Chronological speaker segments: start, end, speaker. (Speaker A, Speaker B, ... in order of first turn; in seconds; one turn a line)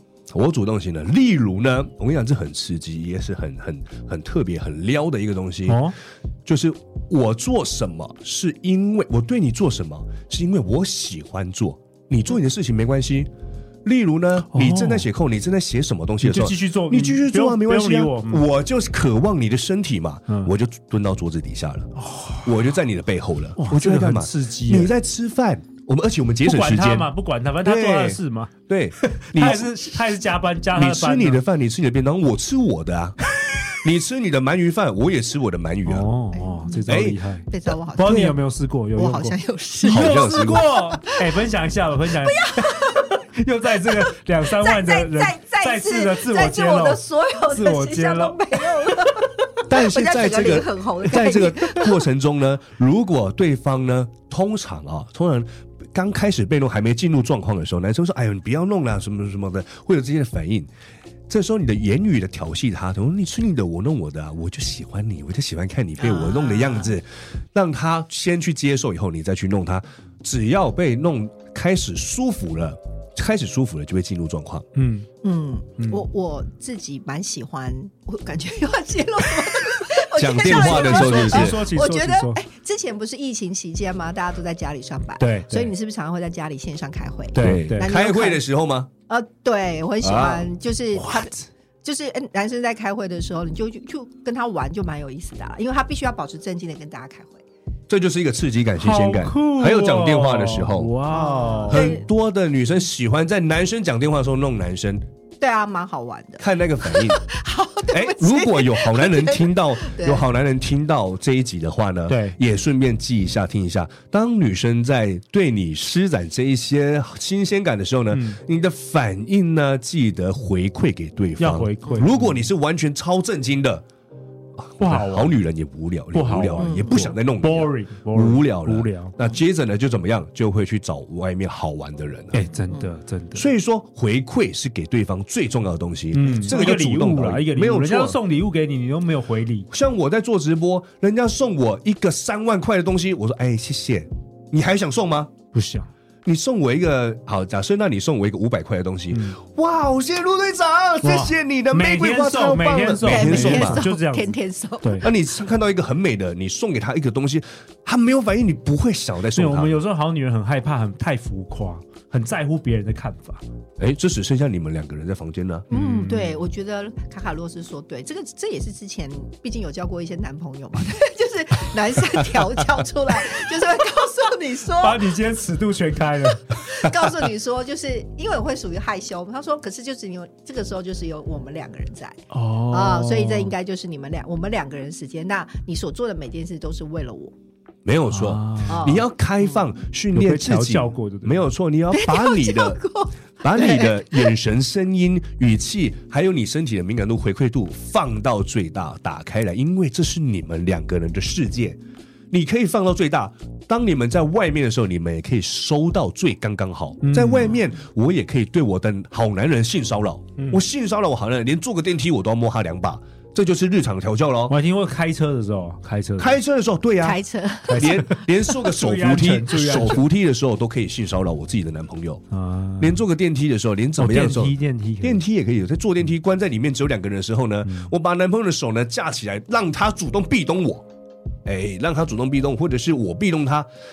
Speaker A: 0.3-5.9
Speaker B: 5.7-6.0
Speaker A: 6.5-13.3
Speaker A: 13.8-21.9
Speaker B: 14.5-15.1
Speaker B: 16.2-18.4
Speaker B: 22.0-22.5
Speaker A: 22.4-27.1
Speaker B: 23.6-24.9
Speaker B: 26.4-31.4
Speaker A: 27.6-29.7
Speaker A: 30.7-33.2
Speaker A: 33.7-36.1
Speaker B: 35.9-49.0
Speaker C: 36.3-36.9
Speaker A: 36.9-37.2
Speaker C: 37.5-38.4
Speaker C: 39.0-41.2
Speaker A: 39.8-40.7
Speaker C: 42.2-43.1
Speaker C: 43.8-52.0
Speaker A: 49.7-60.7
Speaker A: 61.3-74.7
Speaker C: 66.0-66.9
Speaker B: 74.8-75.1
Speaker C: 75.2-88.4
Speaker B: 75.8-76.0
Speaker A: 80.2-81.6
Speaker B: 80.4-82.4
Speaker B: 85.2-85.7
Speaker B: 87.3-87.9
Speaker A: 87.4-88.9
Speaker C: 89.1-91.3
Speaker A: 90.0-90.5
Speaker B: 91.0-91.5
Speaker C: 91.8-97.4
Speaker A: 97.9-100.9
Speaker B: 98.8-102.0
Speaker C: 101.1-102.1
Speaker A: 101.7-105.0
Speaker C: 105.4-110.2
Speaker A: 106.4-107.2
Speaker A: 107.8-123.8
Speaker B: 112.1-112.4
Speaker B: 118.1-118.4
Speaker B: 121.4-122.5
Speaker A: 124.6-132.4
Speaker B: 124.8-125.4
Speaker B: 126.1-129.2
Speaker C: 126.6-127.1
Speaker B: 132.3-133.5
Speaker A: 133.3-138.2
Speaker B: 136.1-139.7
Speaker A: 139.7-145.3
Speaker B: 145.5-145.9
Speaker A: 146.2-153.8
Speaker B: 149.1-149.4
Speaker B: 151.0-154.3
Speaker C: 153.0-155.1
Speaker A: 155.0-159.7
Speaker B: 159.3-163.4
Speaker A: 163.8-165.7
Speaker C: 165.7-175.1
Speaker B: 165.7-166.4
Speaker B: 174.8-176.6
Speaker C: 176.5-187.3
Speaker B: 182.3-183.5
Speaker A: 187.8-192.8
Speaker B: 188.1-188.9
Speaker C: 188.7-189.1
Speaker B: 190.1-191.4
Speaker C: 191.9-194.3
Speaker A: 193.4-201.8
Speaker A: 202.3-214.6
Speaker B: 207.0-207.6
Speaker B: 214.5-216.4
Speaker A: 216.2-222.2
Speaker C: 217.0-218.1
Speaker B: 217.7-220.0
Speaker B: 222.3-223.0
Speaker A: 222.8-230.8
Speaker B: 224.0-225.2
Speaker B: 227.7-227.9
Speaker A: 231.4-233.7